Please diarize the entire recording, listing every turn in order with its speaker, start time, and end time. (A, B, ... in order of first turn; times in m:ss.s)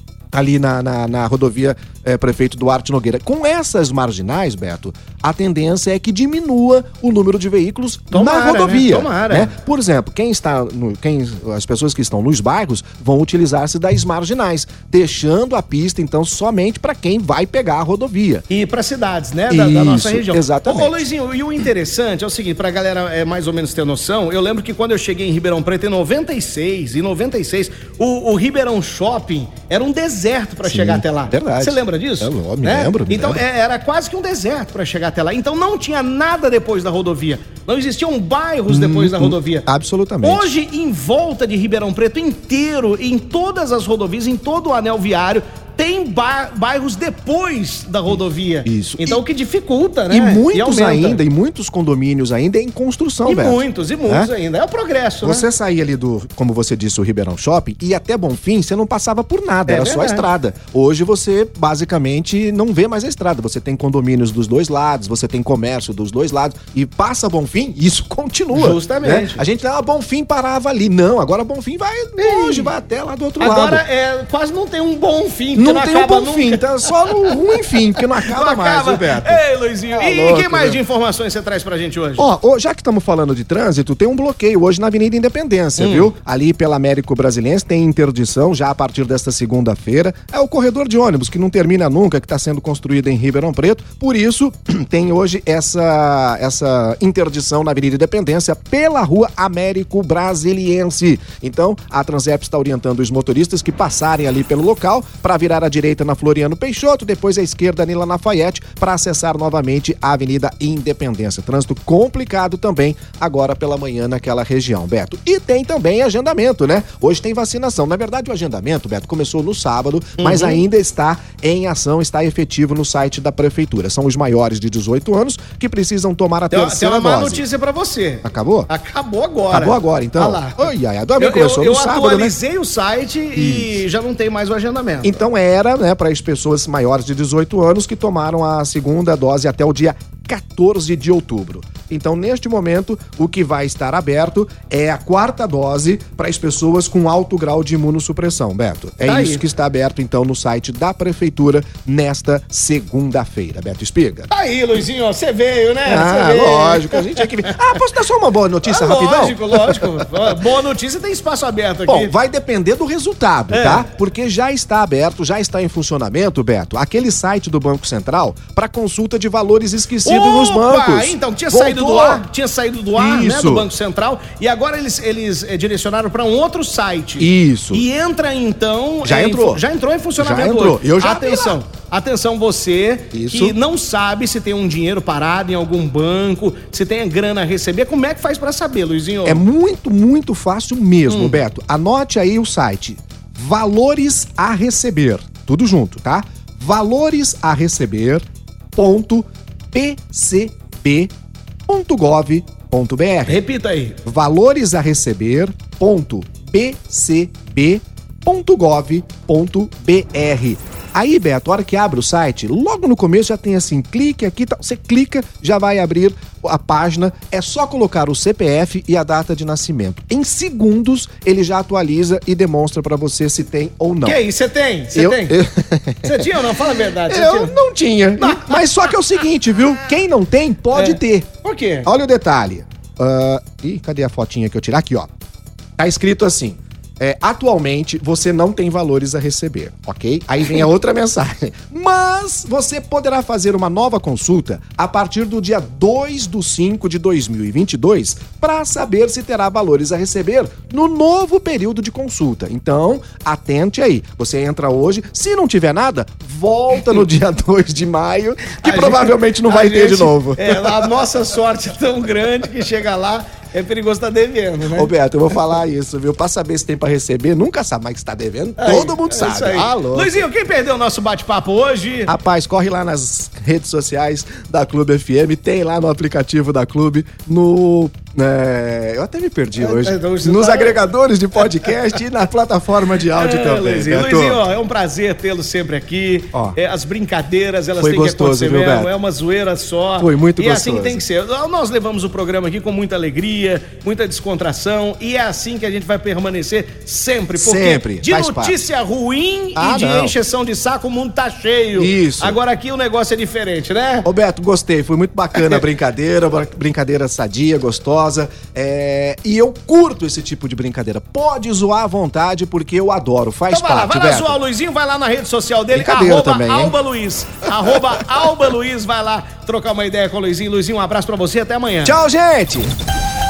0:00.3-0:18.4 A
0:08.1-0:09.6 B
0:18.5-0:39.6 B
0:19.5-0:21.0 A
0:30.6-0:33.4 A
0:38.7-0:40.5 A
0:40.2-0:51.2 B
0:48.1-0:49.2 A
0:50.1-0:54.3 A
0:53.3-0:55.5 B
0:55.2-1:13.8 A
0:59.7-1:00.3 B
1:08.5-1:09.4 B
1:12.2-1:12.7 B
1:13.4-1:22.3 B
1:15.6-1:20.8 A
1:22.2-2:07.4 A
1:25.8-1:26.1 B
2:00.2-2:00.6 B
2:06.5-2:15.2 B
2:08.2-2:08.7 A
2:09.5-2:12.4 A
2:13.4-2:13.8 A
2:15.0-2:34.3 A
2:29.0-2:29.4 B
2:34.3-2:37.3 B
2:35.9-2:40.1 A
2:38.6-2:42.1 B
2:41.9-2:52.2 A
2:43.5-2:43.9 B
2:50.0-3:09.4 B
2:53.0-2:53.7 A
2:57.2-2:57.8 A
2:59.0-2:59.6 A
3:00.2-3:01.6 A
3:03.1-3:03.6 A
3:09.2-3:18.2 A
3:11.1-3:11.4 B
3:18.8-3:21.1 A
3:21.7-3:23.4 A
3:23.3-3:24.0 B
3:24.0-3:44.2 A
3:44.0-3:45.4 B
3:44.9-3:46.3 A
3:46.0-3:47.6 B
3:47.1-3:51.3 A
3:48.2-3:48.9 B
3:50.7-3:51.9 B
3:51.8-3:55.1 A
3:55.8-4:20.9 A
4:18.6-4:24.9 B
4:24.7-4:30.2 A
4:28.6-4:32.1 B
4:32.1-4:44.4 A
4:39.6-4:40.8 B
4:43.2-5:04.1 B
4:47.8-4:48.9 A
4:50.0-4:51.0 A
4:57.4-4:58.6 A
4:59.6-5:00.2 A
5:01.8-5:02.4 A
5:04.0-5:14.4 A
5:05.4-5:05.6 B
5:13.5-5:22.0 B
5:15.7-5:16.8 A
5:21.8-5:22.7 A